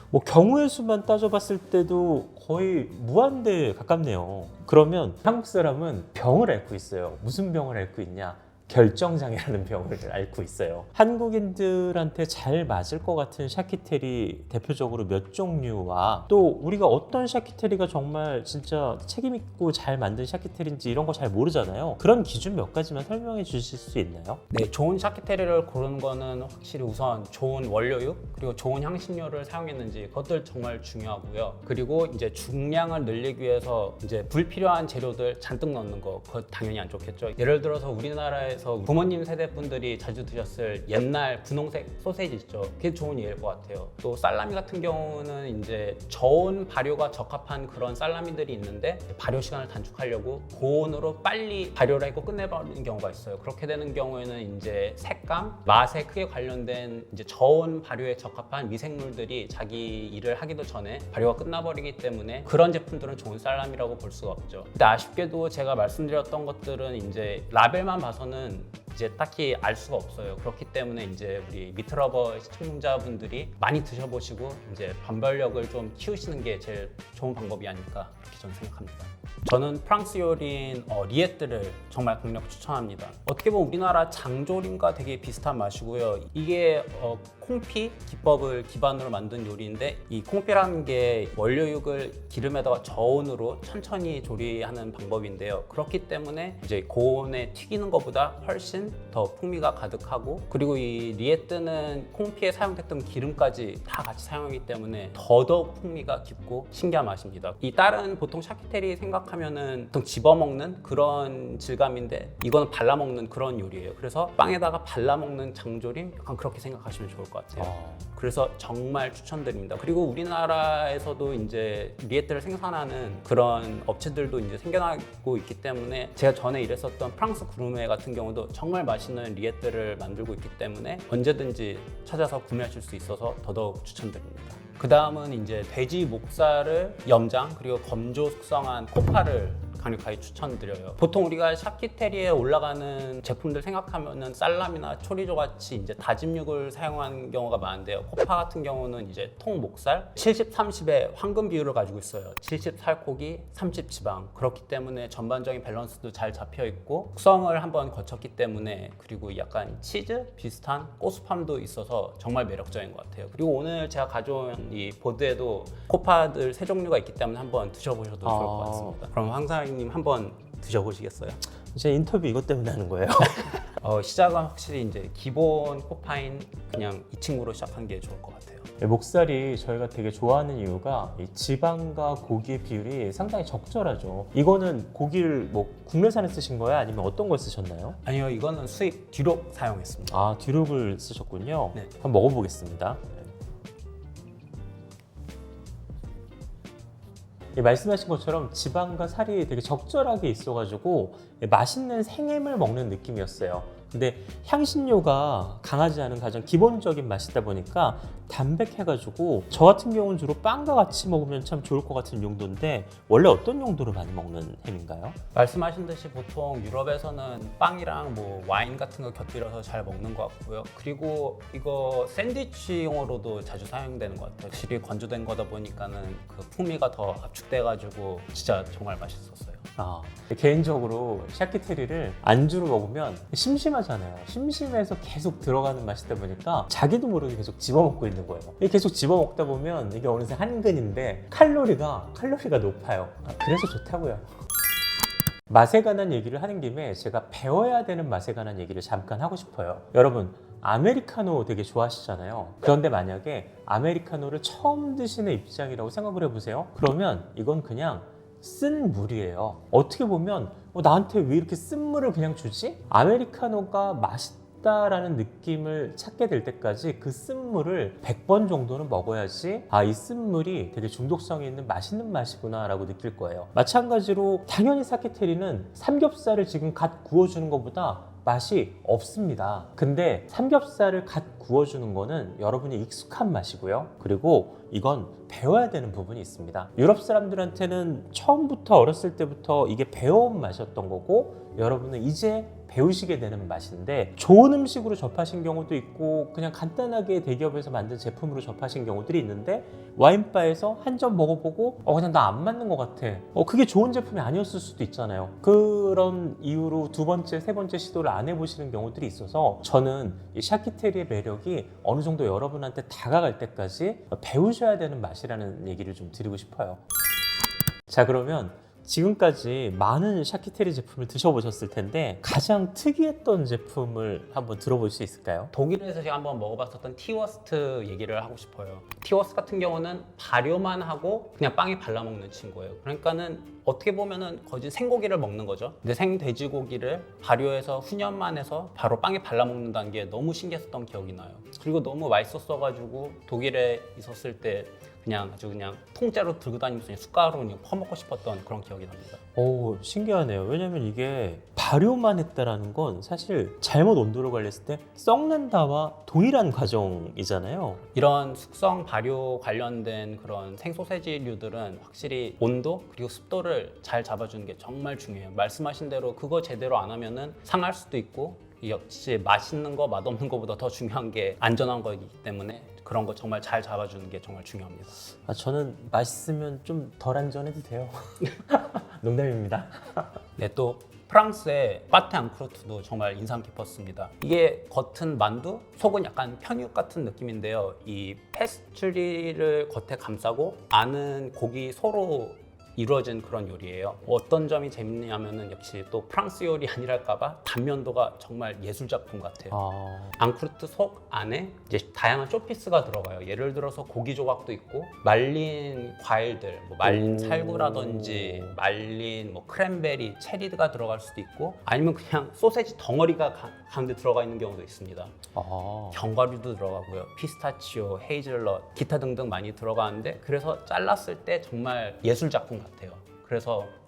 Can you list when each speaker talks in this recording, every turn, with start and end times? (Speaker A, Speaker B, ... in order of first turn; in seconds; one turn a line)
Speaker A: 0.1-24.4
Speaker B: 24.5-171.4
Speaker A: 117.6-118.1
Speaker A: 168.2-169.0
Speaker A: 171.7-173.6
Speaker B: 173.8-178.7
Speaker A: 178.8-188.0
Speaker B: 188.0-190.2
Speaker A: 190.1-193.3
Speaker A: 197.6-215.2
Speaker B: 215.3-229.6
Speaker A: 229.8-244.3
Speaker A: 245.5-316.8
Speaker A: 317.9-325.5
Speaker B: 325.5-349.2
Speaker A: 349.4-357.8
Speaker B: 357.9-375.0
Speaker A: 375.3-380.1
Speaker B: 380.4-399.6
Speaker A: 399.5-400.2
Speaker B: 400.2-415.2
Speaker A: 406.8-408.6
Speaker A: 415.3-416.1
Speaker B: 415.9-423.7